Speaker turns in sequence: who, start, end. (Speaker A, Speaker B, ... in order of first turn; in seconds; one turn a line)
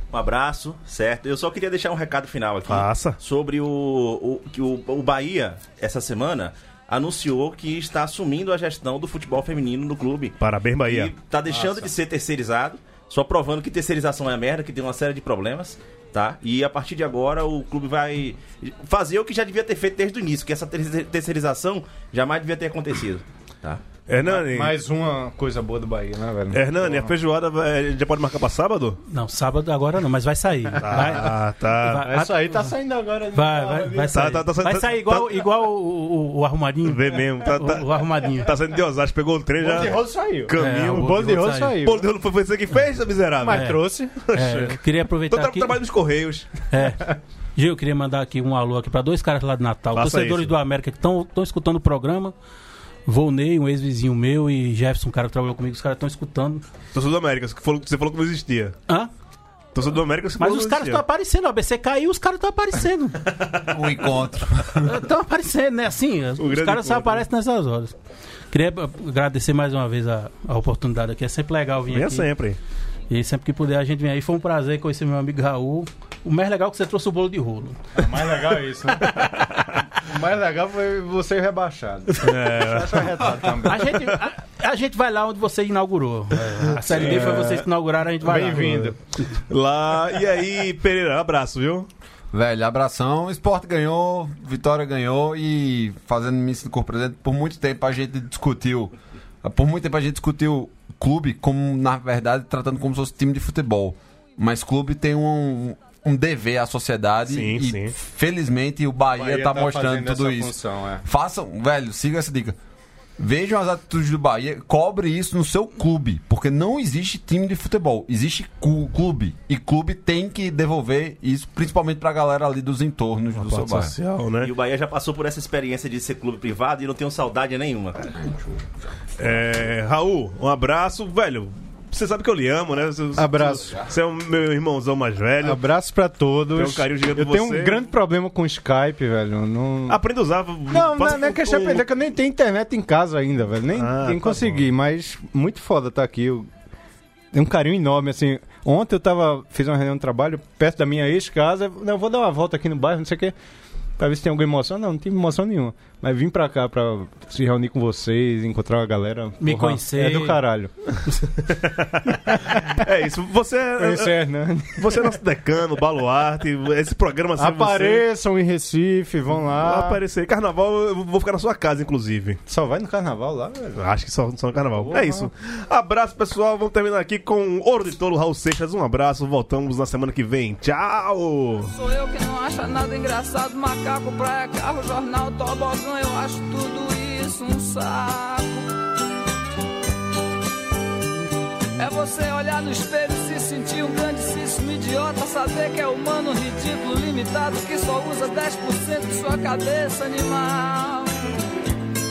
Speaker A: 0.1-10.3
Speaker B: 2.7-3.2
Speaker B: 10.4-11.1
Speaker A: 10.9-23.8
Speaker B: 24.1-24.7
Speaker C: 24.2-27.1
Speaker B: 26.5-29.0
Speaker D: 29.1-32.7
Speaker B: 30.8-32.1
Speaker C: 30.9-31.2
Speaker C: 32.0-34.3
Speaker D: 33.3-38.5
Speaker B: 34.1-35.4
Speaker B: 36.8-41.3
Speaker C: 39.6-42.1
Speaker D: 40.5-41.8
Speaker B: 41.8-46.7
Speaker C: 43.4-44.1
Speaker D: 43.5-45.8
Speaker D: 46.7-52.3
Speaker B: 49.9-50.5
Speaker D: 53.0-56.6
Speaker B: 56.9-58.8
Speaker B: 59.7-61.0
Speaker D: 60.4-63.2
Speaker B: 63.2-63.7
Speaker E: 63.7-65.0
Speaker D: 64.8-67.9
Speaker B: 66.4-67.2
Speaker D: 68.5-72.3
Speaker B: 71.9-72.6
Speaker D: 73.1-77.8
Speaker C: 77.9-79.1
Speaker B: 79.0-79.8
Speaker C: 80.0-84.1
Speaker B: 82.2-83.5
Speaker D: 83.7-89.0
Speaker C: 86.9-87.6
Speaker B: 86.9-87.5
Speaker C: 88.2-89.0
Speaker B: 89.5-91.9
Speaker E: 92.3-112.6
Speaker B: 107.3-107.9
Speaker C: 109.2-111.0
Speaker E: 113.2-123.9
Speaker B: 123.3-124.5
Speaker A: 124.4-128.2
Speaker E: 128.2-129.4
Speaker B: 129.2-135.6
Speaker C: 133.2-133.7
Speaker E: 133.7-133.9
Speaker C: 135.4-140.0
Speaker B: 136.5-137.9
Speaker B: 139.9-141.8
Speaker C: 140.7-146.5
Speaker B: 143.7-144.7
Speaker C: 147.3-153.3
Speaker C: 154.0-160.7
Speaker D: 159.4-160.4
Speaker B: 161.4-168.0
Speaker C: 162.3-162.7
Speaker C: 163.8-165.2
Speaker C: 167.4-170.0
Speaker B: 169.5-172.4
Speaker C: 172.5-173.8
Speaker B: 173.8-181.7
Speaker C: 174.8-175.3
Speaker F: 181.7-188.7
Speaker F: 191.8-201.2